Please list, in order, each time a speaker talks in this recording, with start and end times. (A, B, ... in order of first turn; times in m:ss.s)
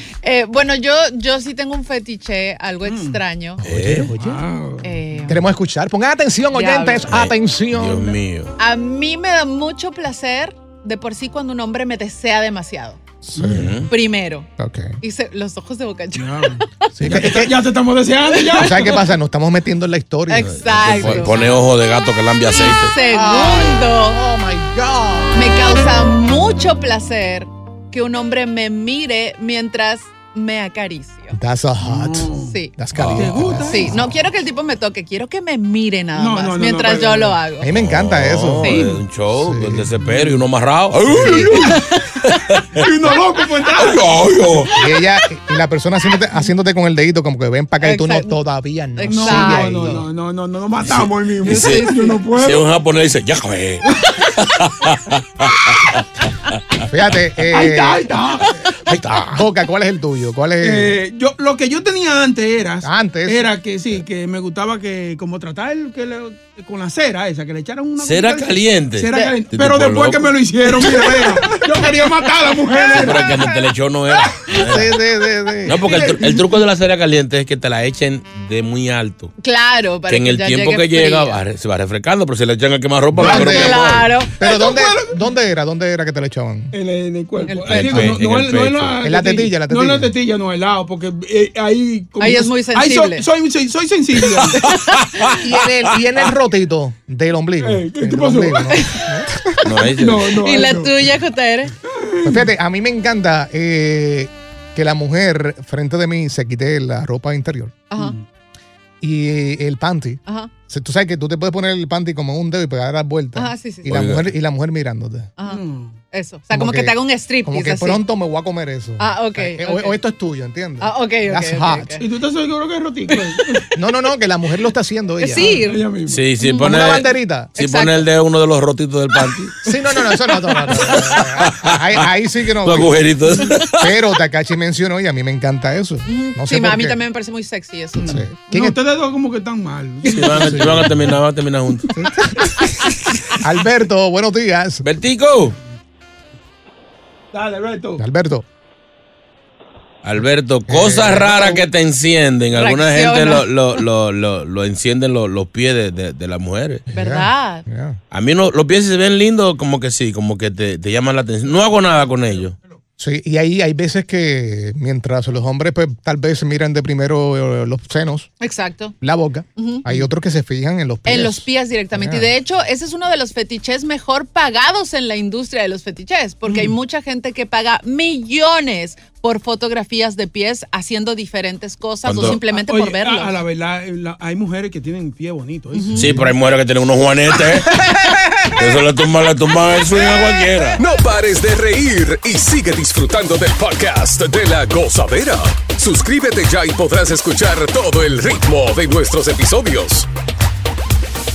0:00.2-0:03.6 A
0:02.9-0:03.2 B
0:03.6-0:04.4 C
0:03.6-0:04.2 D
0:04.1-0:05.3 B
0:04.8-0:05.4 A
0:05.3-0:08.2 C
0:06.5-0:07.0 A
0:07.1-0:08.5 D
0:08.6-0:13.0 A
0:13.3-0:13.7 C
0:13.4-0:13.7 B
0:13.4-0:13.9 D
0:13.9-0:14.5 A
0:14.6-0:15.0 C
0:15.0-0:16.6 A
0:16.2-0:19.0 B
0:17.0-0:17.5 C
0:18.5-0:19.0 A
0:18.6-0:21.4 C
0:20.3-0:21.4 A
0:20.5-0:23.0 D
0:22.5-0:24.2 A
0:23.1-0:25.4 C
0:25.3-0:31.4 A
0:31.3-0:34.1 C
0:31.8-0:32.6 B
0:32.5-0:32.7 A
0:33.0-0:33.6 D
0:33.1-0:34.0 B
0:33.7-0:37.7 A
0:36.2-0:37.4 B
0:37.6-0:38.8 C
0:37.7-0:41.7 D
0:38.6-0:38.9 A
0:39.3-0:39.9 C
0:40.0-0:40.4 B
0:41.1-0:41.8 B
0:41.3-0:41.8 A
0:42.3-0:42.9 D
0:42.8-0:44.7 B
0:43.8-0:44.7 D
0:44.8-0:50.0 C
0:47.8-0:48.4 A
0:49.0-0:50.0 A
0:49.0-0:52.6 B
0:50.8-0:56.0 D
0:51.4-0:52.2 A
0:56.9-0:58.1 C
0:57.5-0:58.5 B
0:58.9-0:59.4 D
0:59.3-1:01.0 C
1:00.6-1:13.3 B
1:02.8-1:03.5 C
1:08.0-1:10.4 D
1:12.9-1:15.0 D
1:14.5-1:15.8 C
1:15.7-1:19.3 D
1:15.7-1:16.5 B
1:19.4-1:21.4 A
1:20.1-1:24.1 D
1:23.2-1:23.5 B
1:23.2-1:26.7 C
1:23.3-1:24.3 A
1:24.4-1:25.2 B
1:26.7-1:34.6 B
1:27.5-1:27.8 A
1:27.7-1:29.0 D
1:29.0-1:30.1 C
1:32.2-1:33.3 A
1:34.7-1:34.9 A
1:35.4-1:39.6 C
1:37.6-1:38.8 B
1:39.6-1:40.4 D
1:40.0-1:41.1 B
1:40.4-1:41.7 A
1:41.8-1:42.5 B
1:42.2-1:47.8 C
1:48.0-1:48.2 B
1:49.0-1:55.3 C
1:53.4-1:53.8 A
1:53.9-1:54.3 D
1:55.5-1:56.0 B
1:56.1-1:58.0 A
1:56.5-1:56.9 C
1:57.5-2:02.0 C
1:59.0-2:00.0 A
2:00.8-2:02.0 A
2:02.0-2:03.7 B
2:03.7-2:05.6 C
2:05.2-2:05.9 A
2:05.4-2:06.3 B
2:06.1-2:09.6 D
2:06.4-2:06.7 A
2:06.6-2:07.6 C
2:07.6-2:08.0 A
2:09.6-2:13.2 C
2:11.0-2:12.0 D
2:12.6-2:14.0 D
2:13.7-2:17.0 C
2:16.1-2:18.1 A
2:18.0-2:21.0 B
2:18.1-2:18.8 C
2:20.1-2:21.9 D
2:20.4-2:20.8 C
2:22.0-2:22.5 C
2:23.4-2:24.8 C
2:24.8-2:25.6 D
2:27.3-2:28.0 B
2:28.0-2:28.4 C
2:30.0-2:36.9 D
2:30.7-2:31.7 C
2:32.5-2:33.5 A
2:36.9-2:38.0 C
2:36.9-2:37.6 A
2:38.1-2:42.6 D
2:43.0-2:48.3 C
2:48.4-2:48.9 A
2:49.0-2:52.3 C
2:49.6-2:49.8 A
2:51.1-3:03.3 A
3:02.0-3:02.4 D
3:02.2-3:06.3 B
3:05.8-3:06.0 A
3:06.0-3:07.8 D
3:08.6-3:10.8 D
3:10.8-3:20.1 E